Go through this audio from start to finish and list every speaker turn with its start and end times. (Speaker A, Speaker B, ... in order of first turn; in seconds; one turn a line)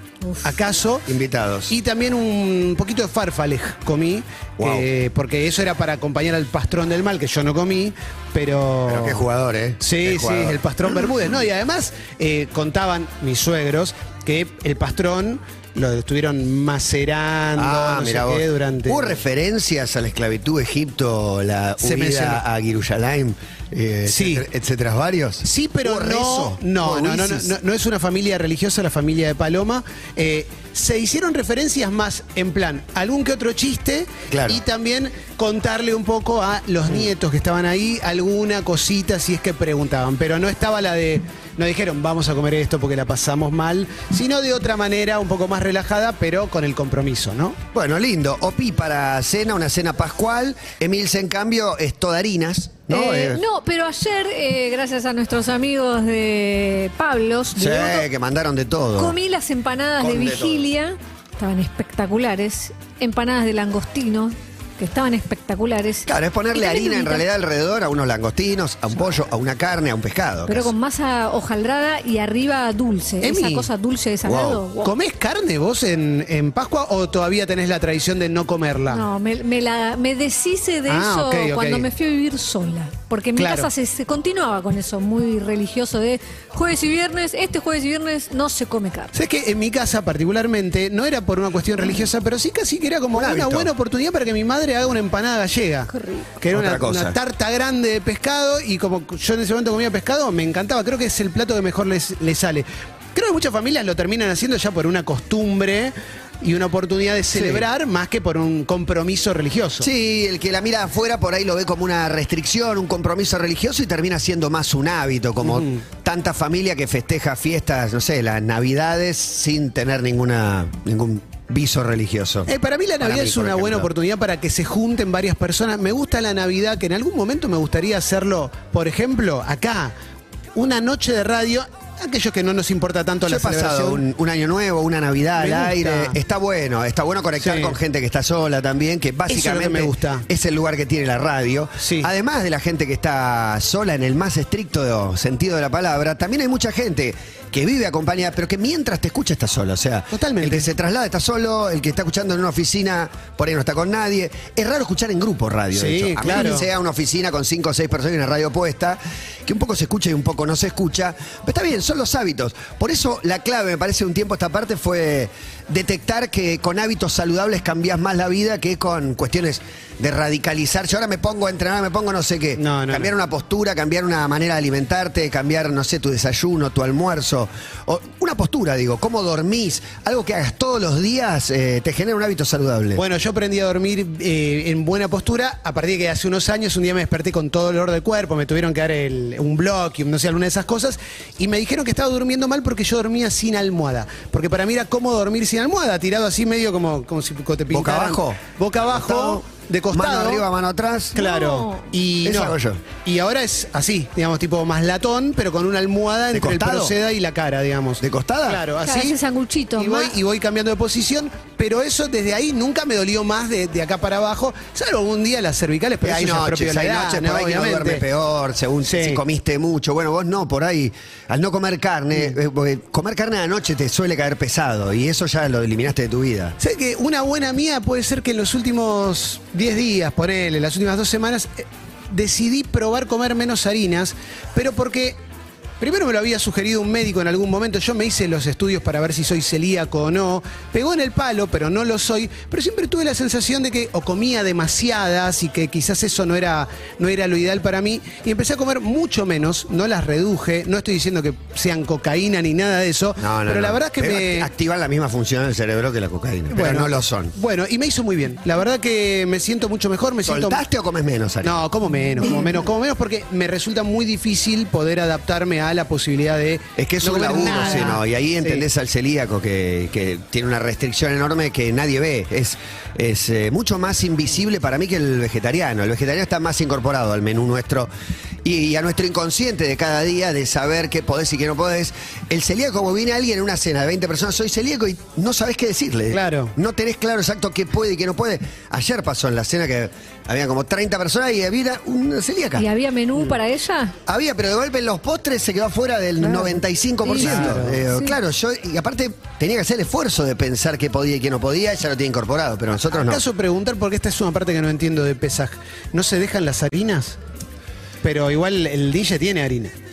Speaker A: 0.2-0.5
Speaker B: 0.4-1.1
Speaker C: 1.1-1.7
Speaker B: 1.7-9.2
Speaker C: 4.6-4.9
Speaker C: 8.8-10.6
Speaker B: 9.8-19.1
Speaker C: 17.5-27.6
Speaker B: 21.8-22.4
Speaker B: 24.1-24.4
Speaker B: 25.4-47.6
Speaker C: 34.3-34.6
Speaker C: 47.7-53.4
Speaker A: 52.9-58.1
Speaker C: 57.5-59.1
Speaker A: 59.0-67.2
Speaker C: 60.0-60.7
Speaker C: 66.0-70.7
Speaker A: 70.5-74.9
Speaker B: 73.2-73.7
Speaker C: 74.2-74.6
Speaker B: 74.8-79.0
Speaker A: 78.9-89.1
Speaker B: 80.9-81.9
Speaker B: 83.3-83.7
Speaker B: 89.1-109.9
Speaker C: 93.1-93.7
Speaker A: 95.9-96.3
Speaker C: 96.5-97.2
Speaker C: 107.3-107.7
Speaker C: 109.8-123.9
Speaker B: 115.4-115.8
Speaker B: 122.5-129.9
Speaker B: 130.5-134.0
Speaker C: 133.2-183.0
Speaker B: 135.4-136.2
Speaker B: 137.4-137.7
Speaker B: 139.3-140.2
Speaker B: 141.8-142.1
Speaker B: 150.1-150.7
Speaker B: 155.7-156.7
Speaker B: 172.6-173.1
Speaker B: 182.9-200.4
Speaker C: 197.7-201.2
Speaker A: 201.1-201.9
Speaker B: 201.1-209.2
Speaker C: 202.2-202.8
Speaker C: 206.3-206.9
Speaker C: 208.0-208.6
Speaker A: 208.8-210.2
Speaker B: 209.8-218.0
Speaker C: 216.0-226.6
Speaker B: 218.8-219.2
Speaker B: 226.6-235.2
Speaker B: 235.8-254.5
Speaker C: 253.2-257.4
Speaker B: 256.5-260.6
Speaker C: 260.2-261.6
Speaker B: 261.4-268.6
Speaker C: 266.8-277.9
Speaker C: 278.4-292.7
Speaker B: 286.1-286.5
Speaker A: 292.6-293.9
Speaker C: 294.1-303.2
Speaker A: 296.2-298.2
Speaker B: 297.1-297.8
Speaker B: 302.9-307.2
Speaker B: 308.0-309.7